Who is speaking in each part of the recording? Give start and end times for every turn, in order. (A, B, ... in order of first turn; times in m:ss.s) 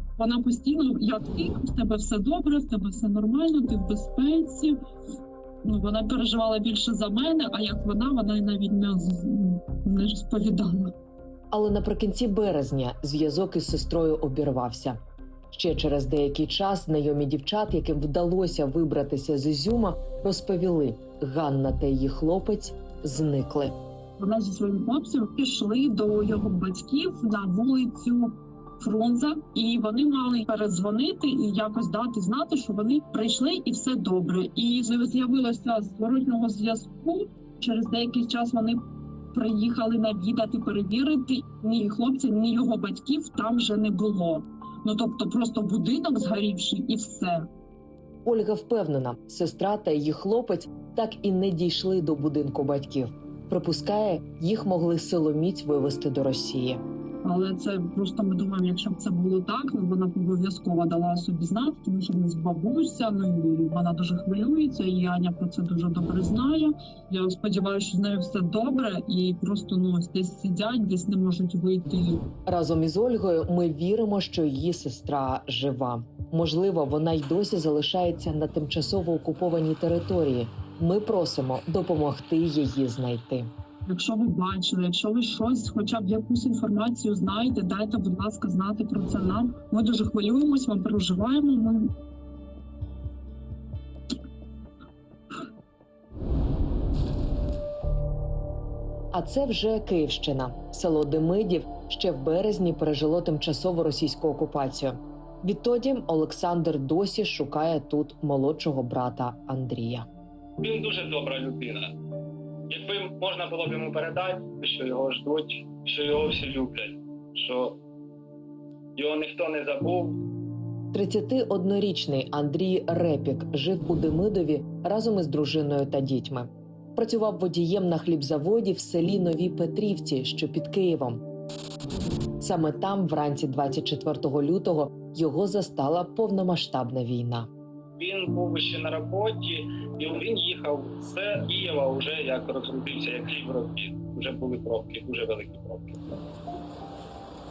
0:00.2-0:04.8 A
0:05.6-0:10.9 A
0:11.5-0:15.0 B
0:15.5-0:23.7 B
0:24.2-0:47.5 A
0:48.2-0:56.8 B
0:57.2-1:12.2 A
1:12.5-1:23.5 B
1:23.9-1:31.9 A
1:39.1-1:50.1 B
1:50.6-1:51.9 C
1:52.7-1:57.8 C
1:59.0-2:00.2 C
2:00.9-2:11.2 B
2:12.4-2:17.5 B
2:18.0-2:26.0 C